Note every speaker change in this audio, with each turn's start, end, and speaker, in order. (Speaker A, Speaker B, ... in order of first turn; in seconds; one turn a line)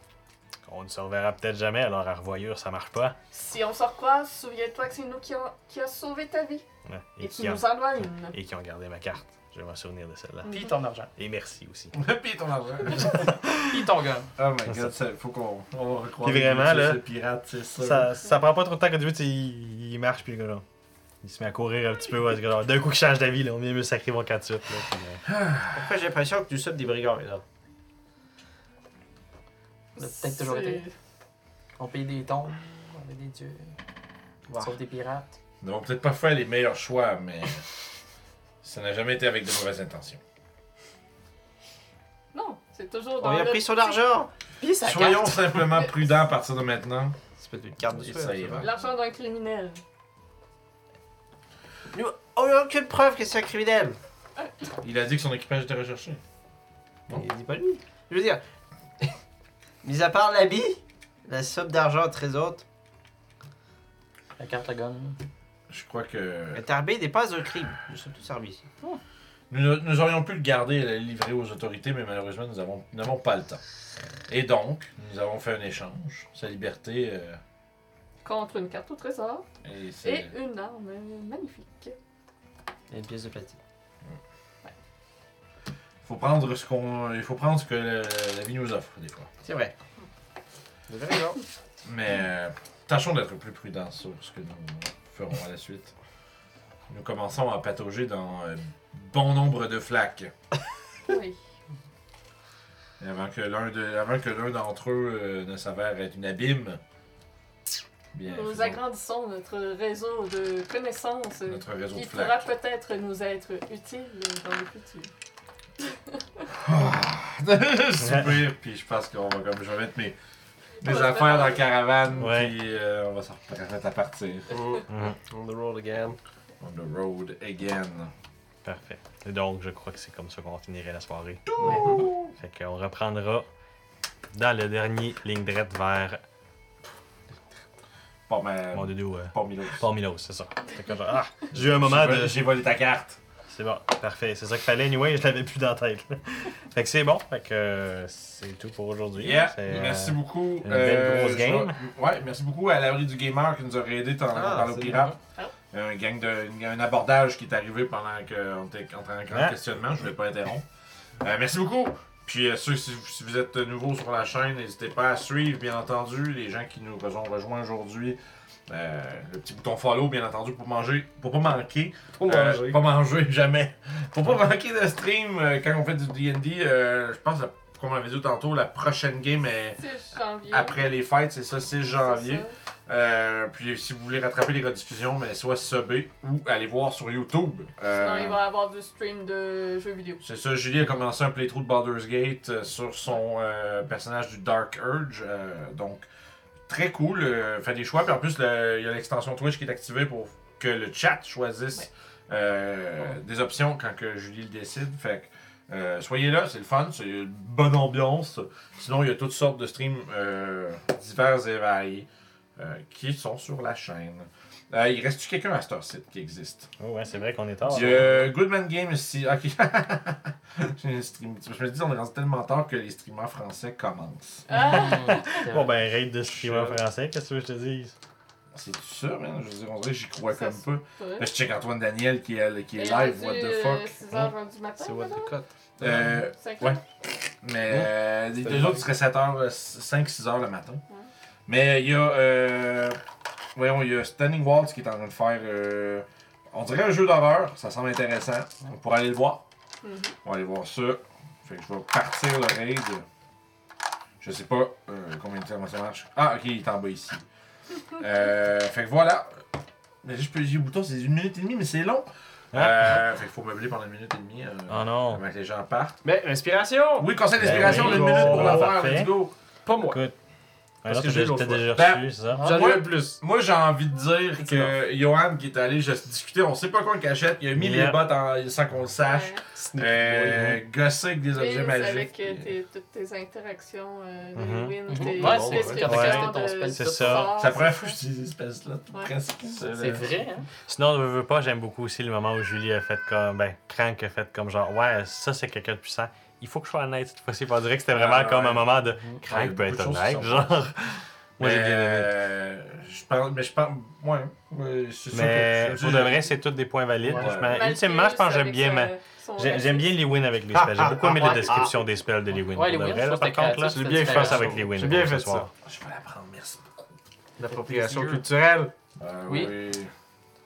Speaker A: 0.6-3.2
Speaker B: 3.3-6.6
Speaker A: 6.8-10.5
Speaker B: 7.2-8.3
Speaker C: 10.5-11.1
Speaker A: 11.2-12.0
Speaker D: 11.9-13.2
Speaker A: 13.0-13.8
Speaker C: 13.6-14.3
Speaker D: 14.4-18.1
Speaker A: 14.7-14.9
Speaker A: 16.2-17.0
Speaker A: 17.8-20.6
Speaker A: 21.2-25.2
Speaker D: 25.3-25.9
Speaker E: 25.7-27.4
Speaker B: 29.9-30.9
Speaker C: 30.0-30.8
Speaker C: 31.8-33.7
Speaker C: 34.6-35.3
Speaker D: 35.6-37.6
Speaker D: 38.6-40.2
Speaker B: 42.3-44.0
Speaker E: 43.2-44.3
Speaker C: 44.6-45.7
Speaker D: 44.8-47.2
Speaker E: 47.4-48.6
Speaker D: 48.0-48.7
Speaker B: 48.6-49.8
Speaker E: 51.9-54.0
Speaker D: 54.8-56.2
Speaker E: 57.1-58.4
Speaker E: 59.8-62.6
Speaker C: 64.4-65.2
Speaker D: 65.7-66.7
Speaker E: 66.5-68.6
Speaker D: 69.5-73.6
Speaker D: 74.3-77.4
Speaker B: 78.2-79.5
Speaker D: 79.6-80.3
Speaker B: 80.0-82.0
Speaker E: 82.9-83.6
Speaker D: 86.0-89.3
Speaker E: 89.4-89.7
Speaker E: 90.9-91.4
Speaker D: 91.8-95.9
Speaker D: 96.9-100.3
Speaker B: 101.1-101.4
Speaker D: 103.0-106.8
Speaker D: 108.1-108.8
Speaker B: 108.2-115.1
Speaker D: 111.5-112.5
Speaker B: 116.1-116.4
Speaker D: 116.5-120.2
Speaker A: 118.0-118.4
Speaker D: 120.8-124.5
Speaker B: 120.8-121.6
Speaker A: 122.1-122.5
Speaker F: 124.5-126.2
Speaker A: 124.9-125.2
Speaker D: 126.6-128.1
Speaker A: 128.6-133.5
Speaker D: 131.5-132.3
Speaker A: 134.3-136.2
Speaker D: 138.3-139.8
Speaker A: 138.7-142.4
Speaker D: 141.5-143.2
Speaker A: 143.5-151.8
Speaker D: 149.2-155.2
Speaker E: 154.3-155.1
Speaker D: 155.7-160.6
Speaker A: 159.3-159.6
Speaker D: 161.2-179.8
Speaker F: 172.2-172.8
Speaker B: 179.8-180.8
Speaker D: 180.5-188.4
Speaker B: 182.0-182.5
Speaker B: 187.9-190.2
Speaker D: 190.2-196.1
Speaker D: 196.7-216.7
Speaker A: 216.8-218.3
Speaker D: 217.7-224.5
Speaker B: 224.5-225.4
Speaker C: 224.7-225.3
Speaker A: 224.7-227.9
Speaker D: 226.3-226.8
Speaker D: 228.5-234.0
Speaker B: 230.3-231.3
Speaker B: 232.8-235.3
Speaker F: 234.8-235.9
Speaker D: 235.8-236.8
Speaker B: 236.1-236.8
Speaker D: 237.4-240.8
Speaker F: 238.4-238.8
Speaker D: 241.5-243.0
Speaker D: 243.5-249.4
Speaker B: 249.8-250.2
Speaker D: 250.2-253.0
Speaker D: 254.2-257.2
Speaker D: 258.0-259.4
Speaker D: 260.0-266.0
Speaker A: 262.5-263.0
Speaker A: 264.7-265.2
Speaker F: 266.0-268.8
Speaker D: 267.0-269.3
Speaker A: 267.4-269.1
Speaker F: 269.6-270.0
Speaker A: 269.9-270.1
Speaker A: 270.8-272.5
Speaker F: 270.8-271.7
Speaker D: 271.7-282.5
Speaker F: 272.3-273.2
Speaker C: 272.4-272.8
Speaker C: 274.4-274.7
Speaker A: 277.6-278.1
Speaker B: 279.0-279.4
Speaker F: 279.5-280.6
Speaker B: 281.3-288.0
Speaker A: 284.4-284.8
Speaker C: 284.9-287.1
Speaker F: 285.0-286.0
Speaker A: 285.8-287.5
Speaker D: 287.1-290.1
Speaker C: 289.7-290.5
Speaker A: 290.6-302.1
Speaker D: 297.9-298.7
Speaker D: 299.3-300.5
Speaker D: 301.4-306.3
Speaker A: 305.1-315.5
Speaker C: 307.0-307.3
Speaker D: 307.1-307.6
Speaker B: 307.5-310.0
Speaker E: 310.6-311.7
Speaker C: 312.5-314.7
Speaker F: 313.5-315.5
Speaker D: 315.6-316.6
Speaker E: 317.4-318.7
Speaker F: 317.5-318.7
Speaker D: 319.0-319.9
Speaker C: 319.3-319.5